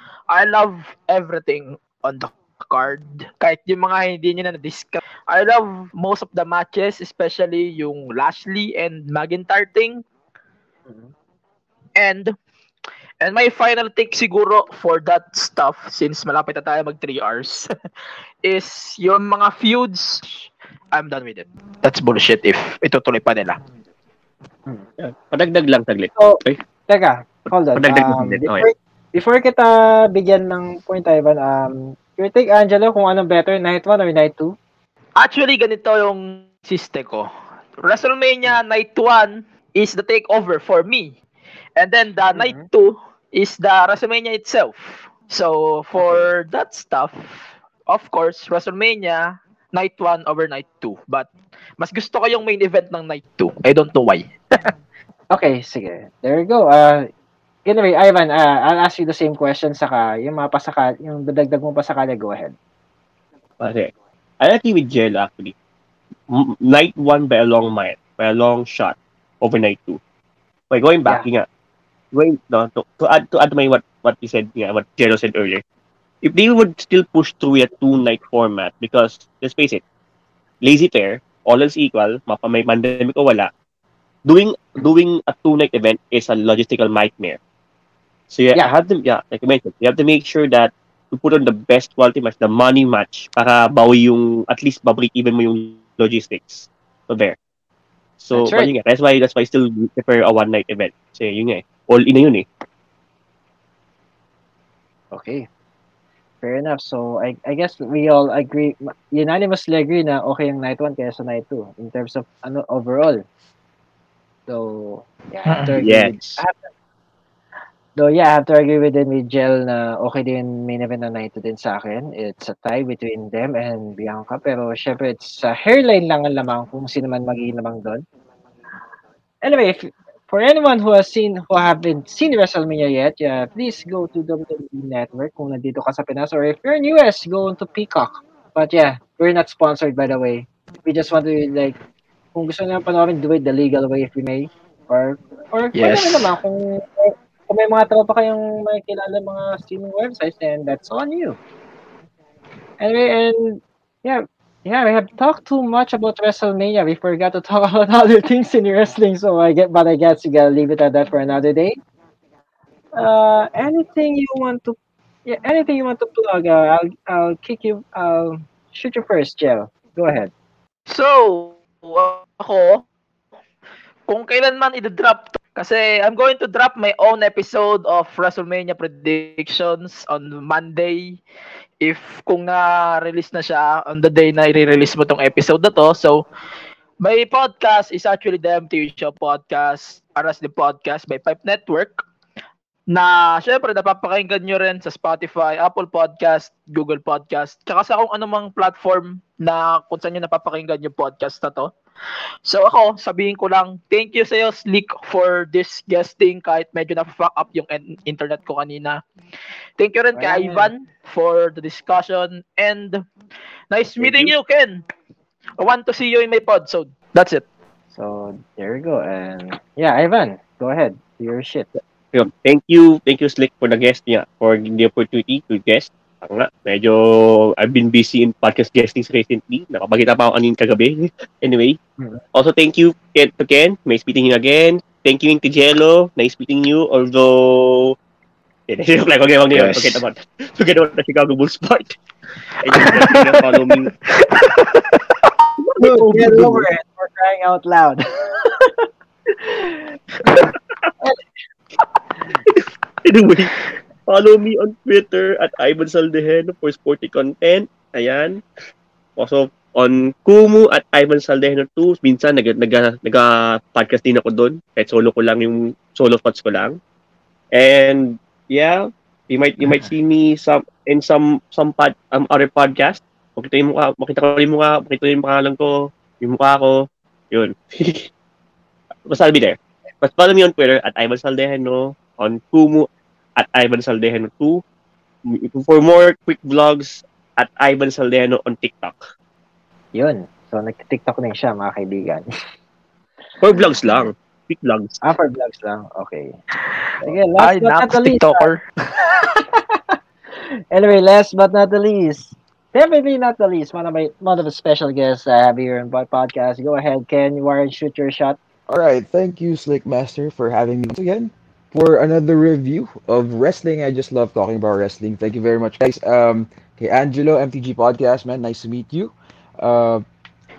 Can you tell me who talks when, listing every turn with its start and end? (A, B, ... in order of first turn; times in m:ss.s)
0:00.3-0:10.0 A
0:12.0-0:12.3 A
0:13.2-0:17.6 A
0:18.4-0:23.6 A
0:25.0-0:26.6 B
0:26.2-0:34.5 C
0:27.7-0:28.6 B
0:35.2-0:37.3 A
0:37.8-0:41.2 A
0:41.8-0:54.7 A
0:42.3-0:42.6 C
0:46.0-0:46.3 C
0:55.3-0:57.1 C
0:57.6-1:02.5 C
1:03.6-1:05.5 B
1:06.3-1:10.0 B
1:10.7-1:11.4 B
1:12.1-1:15.6 B
1:16.2-1:19.8 B
1:20.6-1:23.5 B
1:24.2-1:27.4 B
1:28.3-1:37.4 B
1:38.2-1:42.4 B
1:38.3-1:38.7 C
1:45.1-1:45.5 C
1:46.4-1:53.2 C
1:54.5-1:56.7 C
1:55.4-1:55.8 A
1:55.8-1:56.4 B
1:58.0-2:08.0 C
2:09.4-2:21.8 C
2:22.3-2:31.4 C
2:25.7-2:26.3 A
2:32.8-2:41.8 C
2:43.0-2:50.3 C
2:50.9-2:52.8 A
2:54.1-3:01.2 A
3:01.8-3:06.2 A
3:07.0-3:12.0 A
3:12.9-3:21.7 A
3:22.4-3:29.0 A
3:29.8-3:33.0 A
3:30.1-3:30.7 C
3:33.7-3:34.8 A
3:35.6-3:37.4 A
3:37.9-3:41.7 C
3:42.1-3:51.8 B
3:52.3-3:58.0 B
3:58.7-4:02.0 B
4:02.6-4:03.9 B
4:02.7-4:05.0 A
4:05.6-4:06.7 B
4:05.8-4:08.7 C
4:09.4-4:09.8 C
4:12.5-4:13.5 B
4:14.1-4:18.4 B
4:19.2-4:26.8 B
4:27.5-4:38.1 B
4:39.0-4:44.6 B
4:45.3-4:49.0 B
4:49.9-4:52.3 C
4:53.4-4:55.0 B
4:55.0-4:56.3 C
4:57.0-4:58.5 C
4:57.4-4:58.6 A
4:59.0-4:59.8 C
5:00.7-5:08.4 C
5:08.7-5:20.0 D